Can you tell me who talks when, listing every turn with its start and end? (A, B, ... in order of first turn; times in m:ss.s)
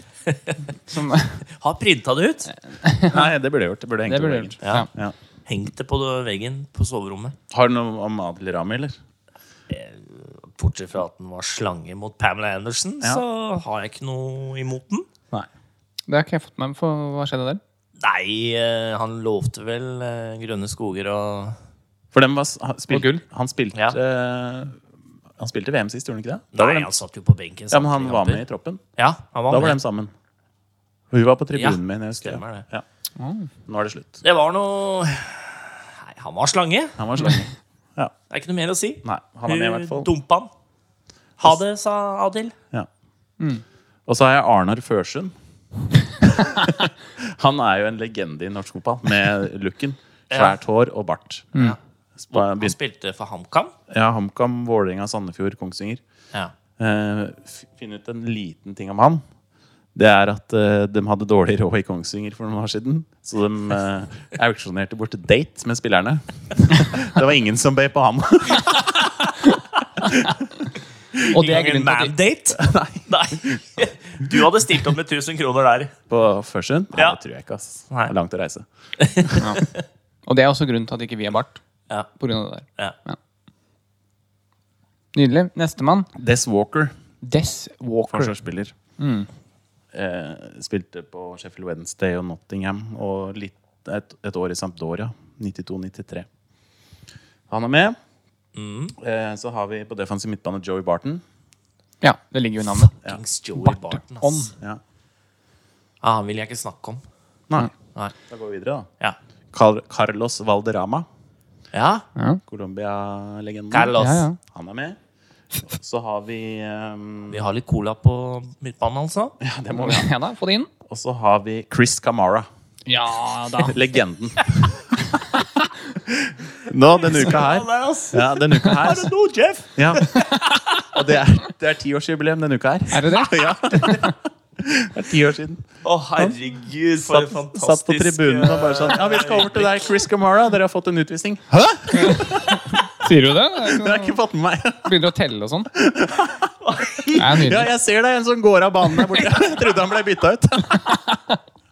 0:00.2-0:00.6 A
0:00.9-0:01.4 B
0:01.6-0:02.5 A
0:02.6-0:03.3 B
0:03.1-0:05.1 C
0:04.1-0:04.9 B
0:05.4-0:07.4 A
0:07.5-0:09.0 C
0:09.7-0:15.1 A
0:16.1-0:17.6 B
0:18.0-0:21.6 A
0:22.1-0:24.8 C
0:22.9-0:23.2 B
0:25.4-0:26.9 C
0:26.5-0:28.4 A
0:27.7-0:28.8 C
0:29.0-0:29.8 A
0:29.5-0:30.1 C
0:31.1-0:32.8 C
0:31.6-0:32.6 A
0:33.2-0:33.5 B
0:33.7-0:34.2 C
0:34.2-0:37.1 A
0:37.0-0:38.1 C
0:38.3-0:40.5 A
0:39.0-0:40.1 C
0:41.4-0:42.5 A
0:44.0-0:45.3 C
0:46.2-0:51.6 C
0:50.3-0:50.6 A
0:52.2-0:52.7 C
0:52.3-0:53.7 A
0:53.9-0:56.0 C
0:56.8-0:59.2 C
0:59.9-1:09.2 C
1:09.5-1:10.4 B
1:11.2-1:15.9 A
1:11.3-1:12.2 B
1:12.6-1:14.4 C
1:16.1-1:18.6 C
1:19.0-1:19.8 A
1:19.2-1:19.5 C
1:19.4-1:19.6 B
1:20.2-1:21.6 B
1:22.2-1:23.2 B
1:25.1-1:26.1 B
1:26.1-1:26.9 C
1:27.2-1:28.3 B
1:28.1-1:28.7 C
1:29.0-1:29.3 B
1:29.9-1:36.3 C
1:37.5-1:38.0 C
1:38.5-1:39.0 A
1:39.0-1:41.2 C
1:42.0-1:42.9 B
1:42.7-1:44.5 A
1:43.6-1:44.5 B
1:46.0-1:47.0 A
1:48.3-1:48.9 C
1:49.5-1:51.1 C
1:51.7-1:52.0 A
1:52.2-1:52.4 B
1:52.4-1:55.0 C
1:53.7-1:54.3 A
1:54.0-1:54.4 B
1:55.6-1:57.5 C
1:57.3-1:59.4 A
1:59.4-2:00.1 C
1:59.7-2:00.7 B
2:00.8-2:02.5 C
2:02.9-2:03.8 B
2:03.6-2:04.8 C
2:04.4-2:04.7 A
2:05.1-2:05.6 B
2:06.0-2:09.1 C
2:06.9-2:11.0 A
2:09.8-2:10.1 C
2:10.1-2:10.4 B
2:10.9-2:15.6 C
2:12.9-2:14.1 B
2:15.8-2:20.0 A
2:17.0-2:22.5 C
2:21.5-2:24.2 B
2:23.6-2:24.9 C
2:24.8-2:25.7 B
2:25.7-2:26.5 C
2:26.6-2:27.4 A
2:27.2-2:27.7 B
2:27.3-2:31.0 C
2:28.9-2:29.2 B
2:30.6-2:31.4 B